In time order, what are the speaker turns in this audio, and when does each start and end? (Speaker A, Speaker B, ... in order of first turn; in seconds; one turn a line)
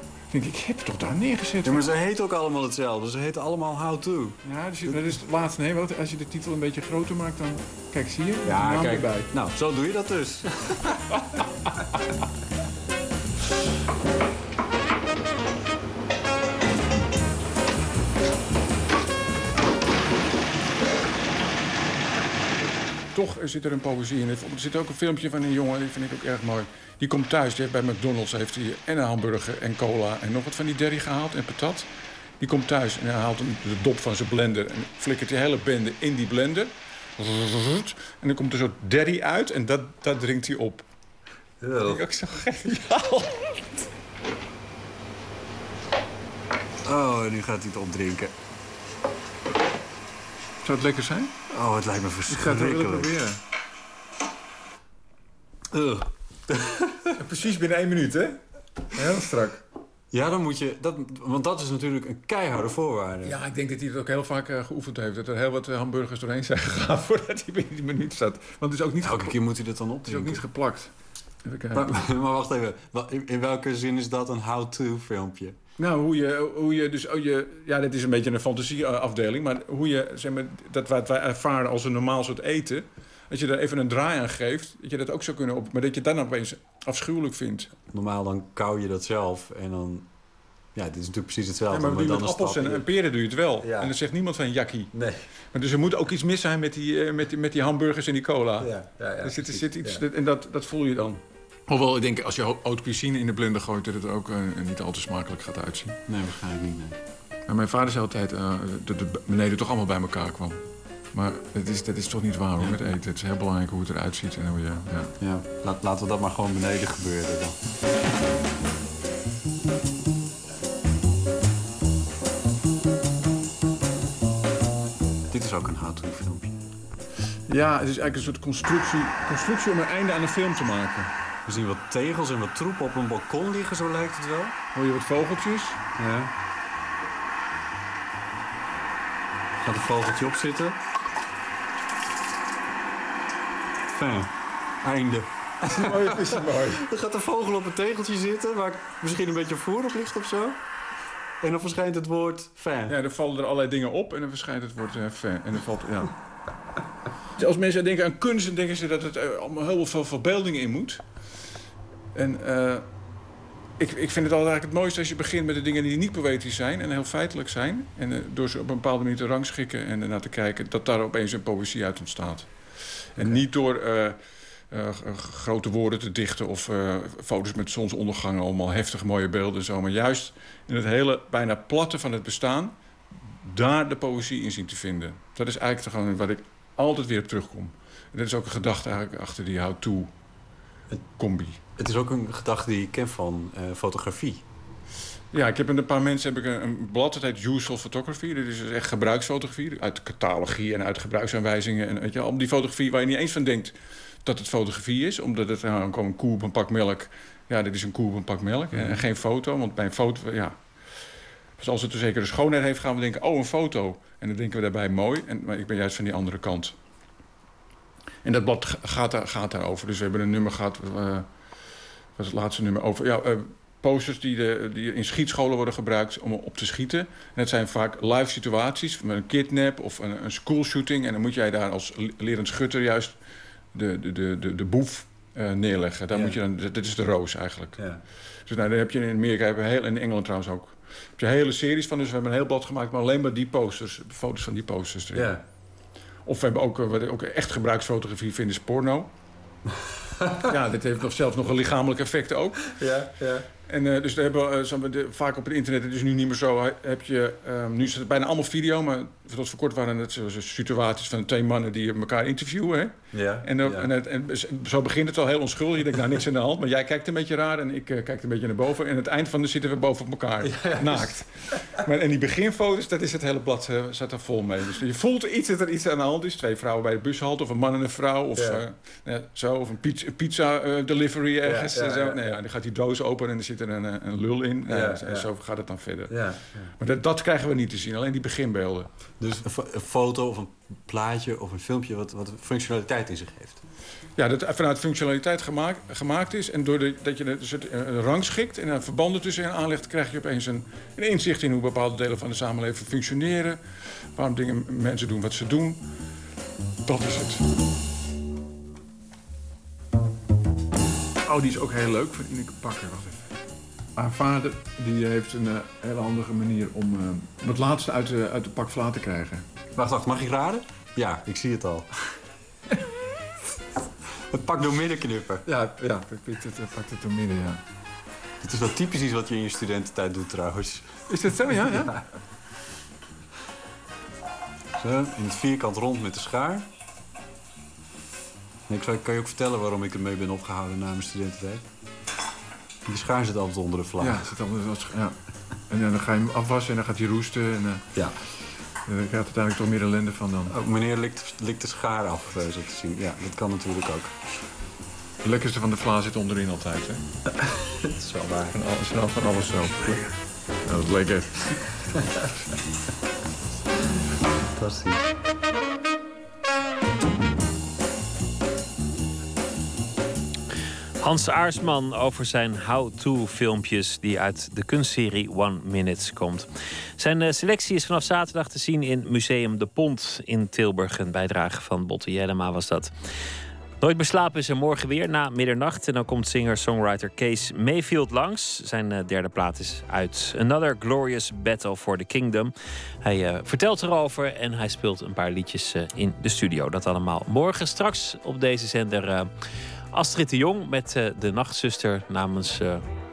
Speaker A: 0.3-1.9
Speaker B: 1.6-5.2
Speaker A: 4.4-9.3
Speaker B: 8.4-10.9
Speaker A: 23.1-40.8
Speaker B: 41.6-42.3
Speaker A: 41.8-43.6
Speaker B: 46.8-48.3
Speaker A: 50.6-51.3
Speaker B: 51.5-53.2
Speaker A: 52.3-53.4
Speaker B: 55.7-57.1
Speaker A: 57.2-58.4
Speaker A: 58.9-59.6
Speaker B: 60.1-63.4
Speaker A: 63.2-69.3
Speaker B: 69.0-70.5
Speaker A: 70.0-70.9
Speaker A: 71.4-71.9
Speaker B: 71.7-75.6
Speaker A: 75.8-87.7
Speaker B: 87.7-90.1
Speaker B: 90.7-93.0
Speaker A: 91.7-94.9
Speaker B: 93.6-94.0
Speaker B: 94.9-95.2
Speaker A: 95.5-106.0
Speaker B: 98.6-100.0
Speaker B: 106.1-107.0
Speaker A: 107.5-115.1
Speaker B: 115.2-117.6
Speaker B: 125.3-126.5
Speaker A: 127.5-131.1
Speaker B: 131.4-134.6
Speaker A: 134.7-135.8
Speaker B: 136.0-136.3
Speaker B: 139.6-140.8
Speaker B: 143.9-150.6
Speaker A: 145.8-146.8
Speaker B: 151.4-153.0
Speaker A: 152.9-156.1
Speaker A: 157.4-161.1
Speaker A: 162.1-162.9
Speaker A: 163.8-174.2
Speaker B: 173.2-173.4
Speaker A: 174.7-182.8
Speaker A: 183.3-190.1
Speaker A: 191.2-191.6
Speaker B: 191.8-194.4
Speaker A: 195.3-210.9
Speaker B: 208.7-209.0
Speaker A: 211.6-216.8
Speaker A: 218.2-221.3
Speaker A: 222.2-233.2
Speaker A: 233.7-245.4
Speaker B: 236.1-236.4
Speaker B: 237.8-238.0
Speaker B: 245.1-245.4
Speaker A: 246.2-249.1
Speaker A: 250.5-252.7
Speaker B: 252.7-253.5
Speaker A: 253.7-286.2
Speaker B: 263.1-263.9
Speaker B: 270.4-271.8
Speaker B: 278.3-278.7
Speaker B: 281.4-282.3
Speaker B: 284.6-285.3
Speaker B: 286.1-286.7
Speaker A: 286.8-288.9
Speaker B: 289.2-293.6
Speaker A: 294.1-305.9
Speaker A: 306.8-307.4
Speaker A: 311.2-313.2
Speaker A: 313.9-319.5
Speaker B: 319.7-321.9
Speaker B: 324.3-326.0
Speaker A: 325.4-327.6
Speaker B: 328.4-332.0
Speaker A: 331.1-331.9
Speaker B: 334.8-336.7
Speaker B: 338.7-341.6
Speaker B: 342.9-344.3
Speaker A: 344.0-345.1
Speaker A: 345.7-347.9
Speaker B: 347.9-348.2
Speaker A: 348.9-350.5
Speaker B: 350.5-354.1
Speaker A: 355.2-357.0
Speaker B: 357.4-358.6
Speaker A: 358.5-359.9
Speaker B: 359.2-360.0
Speaker A: 360.6-361.3
Speaker B: 364.6-365.1
Speaker C: 371.0-382.9
Speaker C: 383.8-399.3
Speaker C: 399.9-402.8